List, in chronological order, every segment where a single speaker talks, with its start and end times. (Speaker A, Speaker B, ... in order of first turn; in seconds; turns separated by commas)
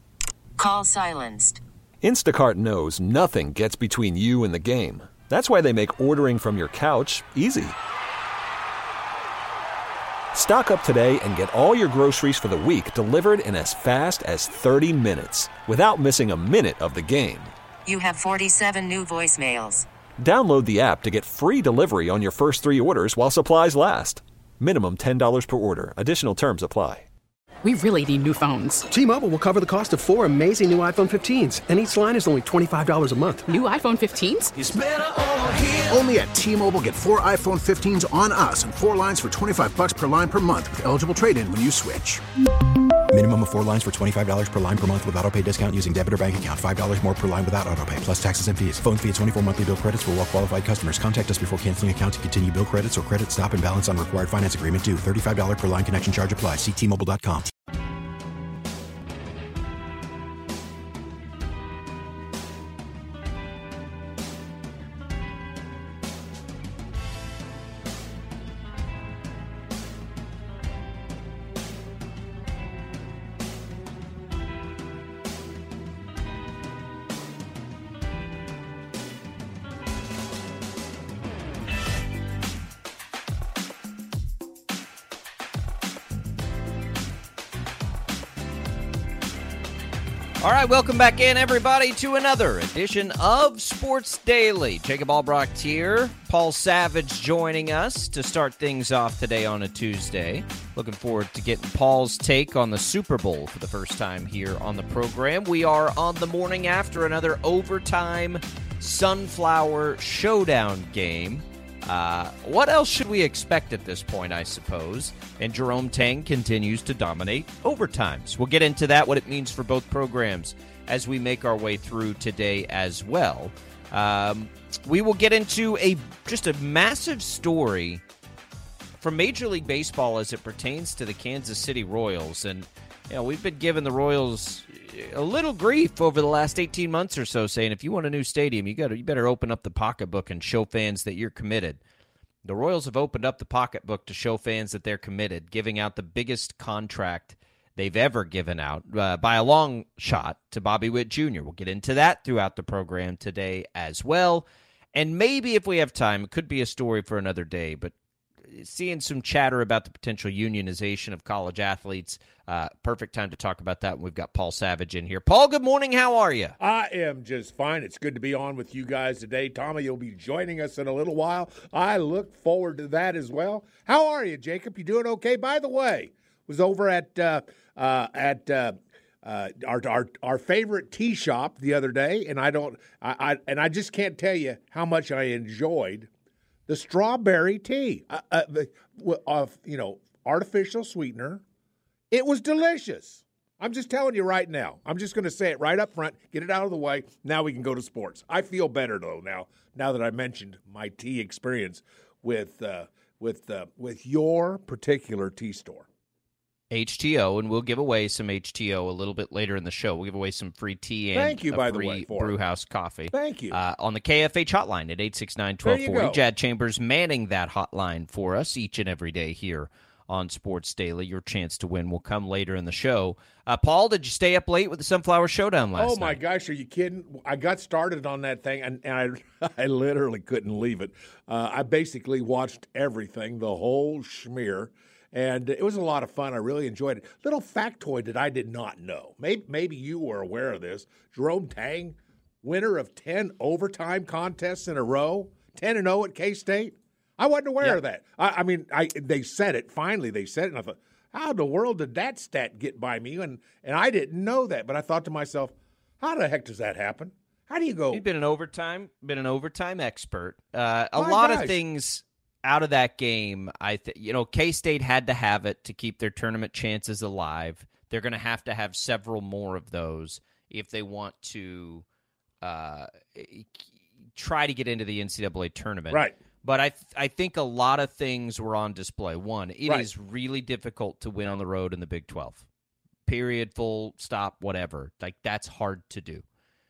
Speaker A: 0.6-1.6, Speaker B: 2.0-7.8, Speaker B: 10.3-17.5, Speaker A: 17.9-19.9, Speaker B: 20.2-27.1, Speaker C: 27.6-28.9, Speaker D: 28.9-33.5, Speaker C: 33.5-34.5, Speaker E: 34.5-42.2, Speaker F: 43.1-57.5, Speaker G: 90.4-128.0, Speaker G: 129.0-141.8, Speaker G: 142.4-157.9, Speaker G: 158.4-166.6, Speaker H: 166.6-186.1, Speaker H: 186.7-191.4, Speaker H: 192.1-205.9, Speaker G: 206.7-226.2, Speaker H: 211.1-212.3, Speaker H: 213.1-213.6, Speaker H: 215.6-216.2, Speaker H: 225.8-258.0, Speaker G: 257.9-271.8, Speaker H: 260.9-261.6, Speaker G: 272.4-282.5, Speaker H: 275.9-276.1, Speaker G: 283.1-286.2